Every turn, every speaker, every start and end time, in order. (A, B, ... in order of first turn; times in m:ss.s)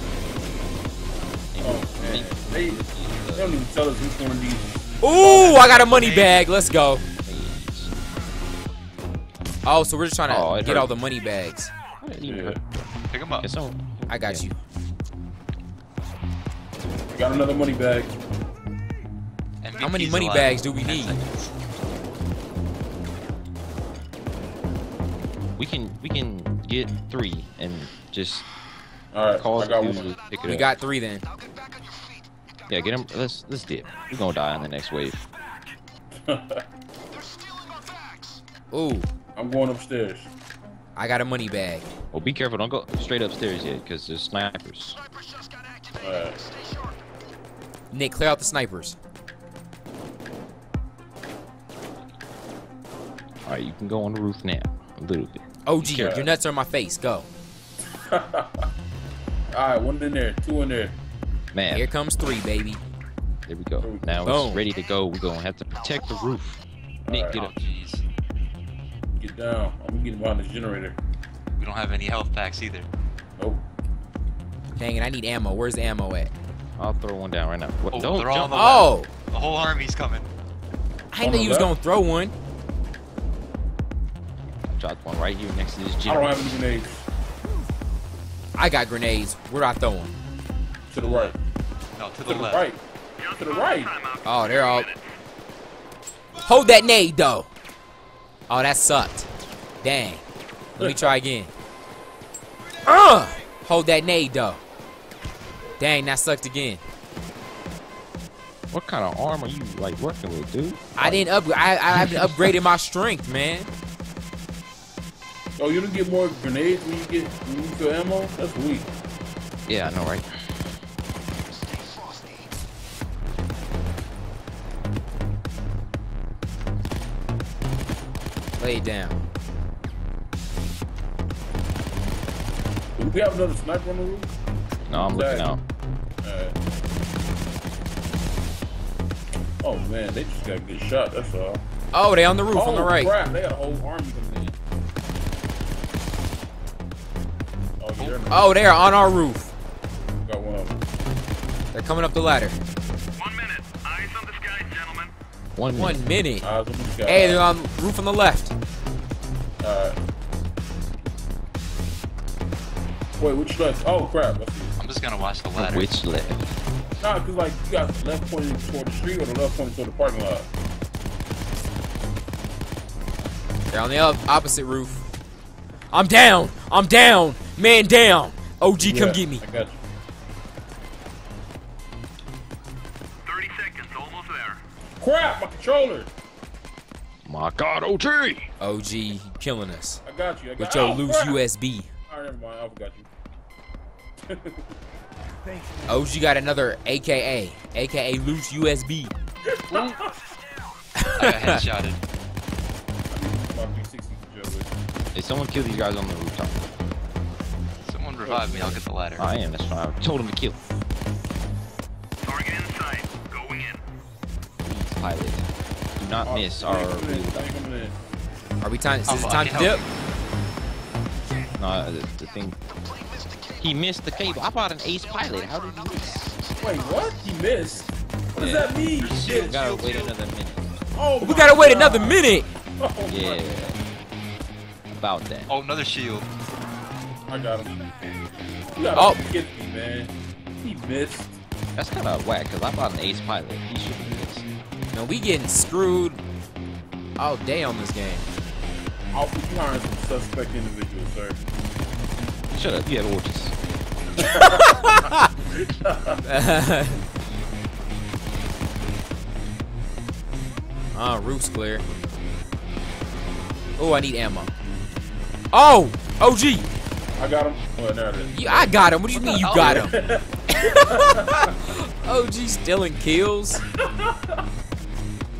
0:01.5-0:03.6 A
0:01.6-0:02.8 B
0:03.3-0:05.8 B
0:05.0-0:07.0 C
0:05.3-0:06.4 D
0:07.2-0:07.9 A
0:09.6-0:11.7 C
0:10.3-0:11.0 A
0:12.0-0:12.6 A
0:12.2-0:12.6 B
0:13.1-0:13.5 D
0:13.4-0:14.5 A
0:14.1-0:14.6 C
0:17.1-0:18.1 B
0:19.6-0:21.5 D
0:19.8-0:21.2 C
0:25.6-0:28.5 A
0:29.1-0:30.1 B
0:29.3-0:30.7 A
0:30.4-0:31.3 C
0:32.7-0:35.2 A
0:36.2-0:36.6 B
0:38.7-0:39.1 C
0:39.4-0:40.3 B
0:41.0-0:41.9 C
0:42.1-0:45.0 A
0:46.0-0:46.4 B
0:47.9-0:49.0 C
0:53.4-0:56.2 A
0:55.7-0:57.3 C
0:56.0-0:56.3 B
0:58.0-0:58.7 B
0:59.5-1:01.0 B
1:01.5-1:01.9 A
1:01.7-1:02.8 C
1:03.5-1:07.5 A
1:03.8-1:04.2 B
1:04.2-1:04.6 C
1:07.1-1:07.4 B
1:07.3-1:08.0 D
1:09.2-1:11.0 B
1:11.6-1:12.9 D
1:14.8-1:16.3 C
1:16.8-1:18.8 A
1:17.9-1:20.3 D
1:18.5-1:19.1 C
1:21.1-1:22.3 C
1:21.2-1:21.7 B
1:24.6-1:26.4 A
1:26.1-1:27.1 B
1:28.6-1:30.2 C
1:30.9-1:31.4 B
1:31.0-1:31.4 D
1:32.0-1:32.7 D
1:32.3-1:32.8 B
1:33.2-1:35.2 E
1:33.3-1:33.9 B
1:34.2-1:34.9 C
1:36.4-1:37.5 C
1:38.5-1:39.3 C
1:39.8-1:40.2 C
1:40.8-1:41.1 B
1:40.8-1:41.5 C
1:42.9-1:44.6 C
1:45.8-1:46.8 C
1:48.7-1:51.2 A
1:51.0-1:53.7 C
1:51.9-1:52.6 A
1:55.6-1:58.9 B
1:59.7-2:00.5 A
2:08.6-2:09.2 C
2:13.0-2:14.3 B
2:14.9-2:15.5 B
2:14.9-2:15.6 A
2:16.2-2:16.6 B
2:19.6-2:21.6 B
2:21.9-2:23.1 C
2:22.5-2:24.6 B
2:27.8-2:28.4 B
2:28.0-2:28.3 D
2:28.3-2:29.5 C
2:30.2-2:30.8 B
2:31.7-2:32.6 C
2:33.2-2:35.1 E
2:35.6-2:36.0 A
2:35.8-2:36.5 C
2:36.4-2:37.5 B
2:37.1-2:38.5 C
2:39.6-2:40.0 B
2:43.2-2:44.8 B
2:44.8-2:45.9 D
2:45.6-2:46.4 A
2:47.0-2:50.5 B
2:53.7-2:55.0 C
2:55.9-2:59.4 C
2:58.8-2:59.8 B
3:03.2-3:04.6 E
3:05.0-3:06.1 B
3:07.3-3:08.5 A
3:08.6-3:10.0 C
3:10.0-3:11.4 B
3:10.6-3:11.9 C
3:12.1-3:13.1 B
3:14.3-3:14.7 B
3:15.5-3:16.0 E
3:15.9-3:19.1 C
3:19.5-3:20.4 B
3:21.0-3:21.6 C
3:21.1-3:22.0 D
3:23.1-3:24.7 B
3:25.1-3:26.7 A
3:27.8-3:29.3 D
3:28.2-3:28.8 B
3:29.2-3:30.6 A
3:32.2-3:33.8 E
3:34.6-3:35.4 A
3:36.0-3:37.5 A
3:36.2-3:38.0 B
3:38.6-3:39.8 C
3:39.1-3:39.9 D
3:41.6-3:42.6 A
3:43.6-3:46.4 A
3:46.6-3:49.6 B
3:47.7-3:50.7 A
3:48.9-3:50.1 D
3:51.0-3:53.7 B
3:51.2-3:52.5 C
3:53.1-3:53.8 A
3:55.0-3:55.5 A
3:55.5-3:56.3 D
3:57.3-3:57.8 B
3:58.8-4:01.4 B
3:58.9-3:59.2 C
4:01.8-4:04.5 A
4:04.9-4:06.2 C
4:07.2-4:08.3 C
4:09.1-4:11.4 B
4:12.5-4:13.6 A
4:14.2-4:15.1 B
4:14.2-4:15.3 C
4:15.7-4:16.2 B
4:16.2-4:17.0 C
4:20.9-4:21.8 C
4:23.8-4:24.5 C
4:25.5-4:26.7 C
4:27.2-4:28.7 B
4:28.3-4:30.0 C
4:29.1-4:30.0 D
4:29.2-4:31.5 B
4:30.5-4:33.6 C
4:33.8-4:34.4 B